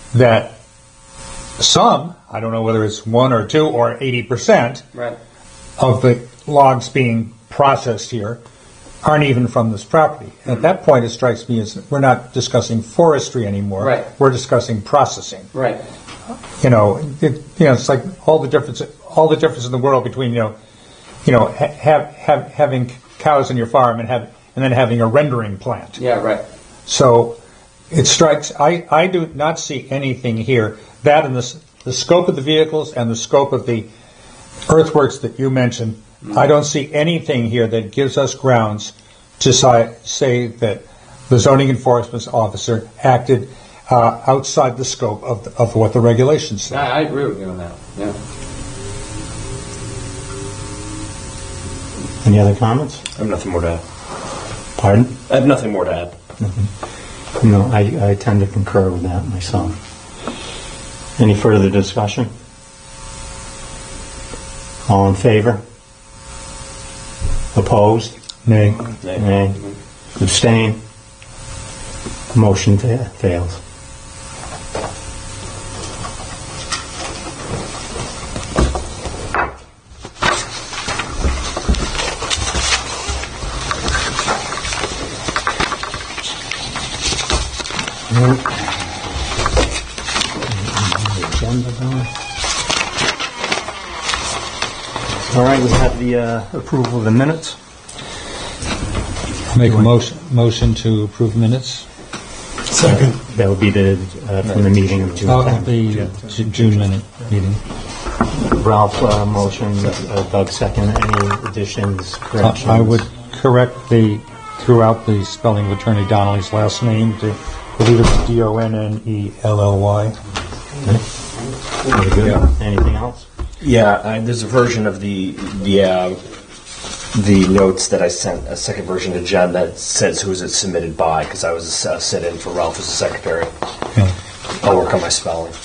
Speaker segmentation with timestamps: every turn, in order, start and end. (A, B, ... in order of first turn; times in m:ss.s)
0:00.1-0:00.5 A
0:01.6-0:04.8 A
0:05.8-0:08.4 A
0:09.0-0:15.5 A
0:13.8-0:14.1 B
0:15.5-0:15.8 B
0:16.6-0:20.5 A
0:21.2-0:26.0 A
0:26.0-0:26.4 B
0:26.9-0:27.4 A
0:27.9-0:33.9 A
0:34.7-0:46.8 A
0:46.7-0:48.2 B
0:52.2-0:53.0 C
0:53.2-0:53.8 D
0:54.8-0:55.2 C
0:55.3-0:56.2 D
0:56.4-0:56.7 C
0:57.4-0:59.8 C
1:01.2-1:02.3 C
1:04.8-1:05.6 C
1:07.5-1:08.1 C
1:08.4-1:08.8 A
1:09.1-1:09.6 C
1:10.2-1:10.8 C
1:12.3-1:13.6 C
1:28.1-1:28.6 C
1:30.5-1:32.1 C
1:35.2-1:37.6 C
1:39.5-1:41.9 A
1:39.6-1:39.9 C
1:42.8-1:45.8 C
1:45.3-1:47.6 A
1:48.3-1:53.1 C
1:52.4-2:00.1 A
2:01.9-2:03.3 C
2:03.6-2:06.2 D
2:07.1-2:13.5 D
2:14.5-2:15.5 D